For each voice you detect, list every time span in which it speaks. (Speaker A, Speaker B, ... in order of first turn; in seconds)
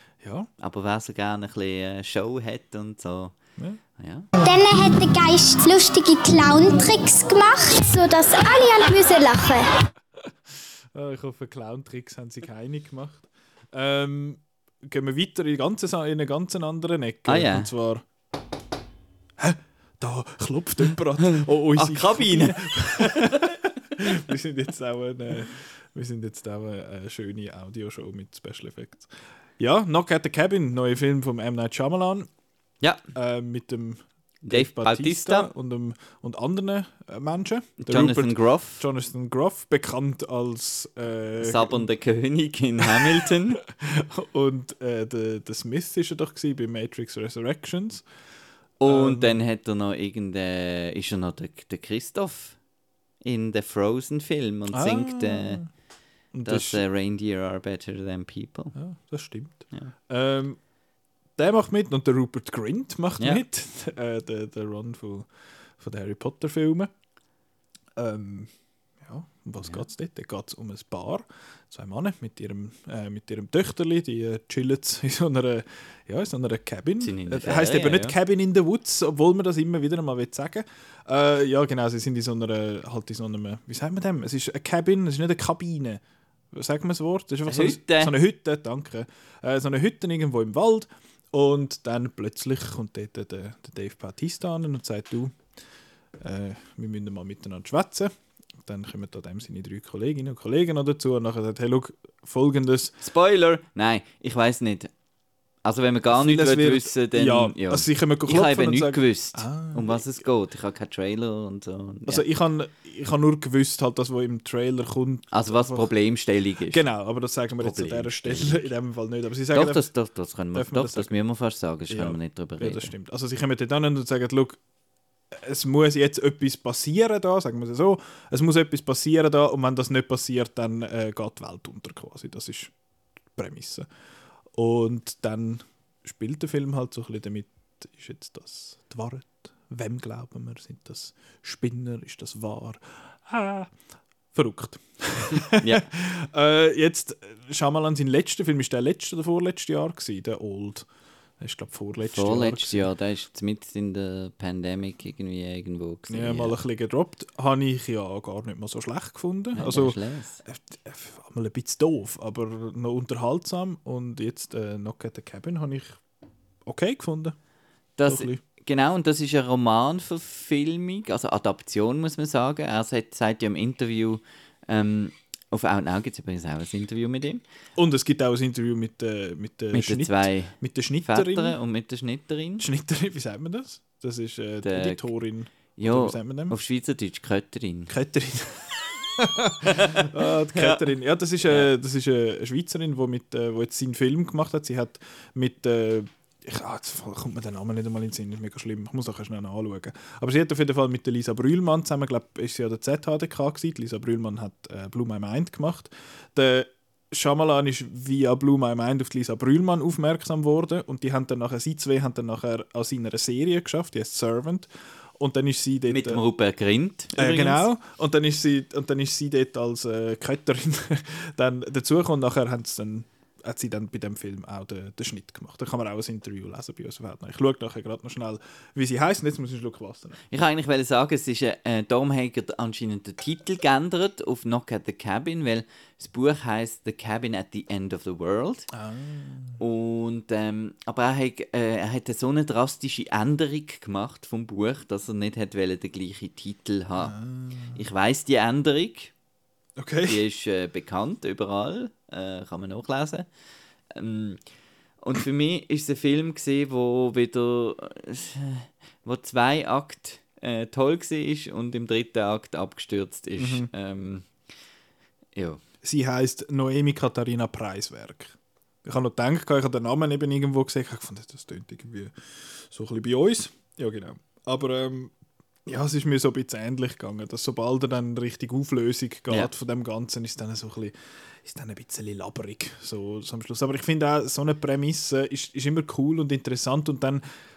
Speaker A: 0.2-0.5, 10.3-18.1, 19.4-32.3, 33.1-41.9, 42.8-48.0, 48.9-49.4, 54.7-55.7, 56.3-56.8, 58.8-60.6, 61.4-66.9, 68.0-95.4, 96.2-103.0, 106.1-110.1, 112.1-115.9, 116.7-119.9, 120.5-121.1, 121.9-124.6, 125.3-132.7, 133.3-133.9, 134.5-143.8, 144.3-152.9, 156.1-166.0, 166.7-167.4, 168.0-168.4, 177.8-181.6, 182.6-186.6, 187.9-216.2, 217.1-230.2, 238.7-239.6, 247.0-247.8, 249.8-250.2, 263.4-263.7, 265.8-275.1, 275.7-287.3
Speaker B: 0.6-3.4, 4.0-4.3, 17.3-17.7, 21.3-23.5, 34.5-35.5, 37.8-38.9, 41.4-43.6, 48.8-52.6, 53.2-55.7, 56.5-58.8, 77.0-78.2, 87.5-88.2, 103.0-104.9, 105.6-112.2, 115.3-116.8, 117.6-118.7, 119.5-122.9, 145.6-145.9, 152.0-156.6, 159.6-160.4, 168.0-177.4, 179.7-182.7, 184.6-185.1, 185.8-187.9, 189.7-190.8, 215.9-217.7, 230.3-238.7, 239.6-247.2, 247.8-249.1, 250.1-253.3, 253.9-254.4, 255.0-264.3, 265.4-265.6
Speaker C: 4.4-9.7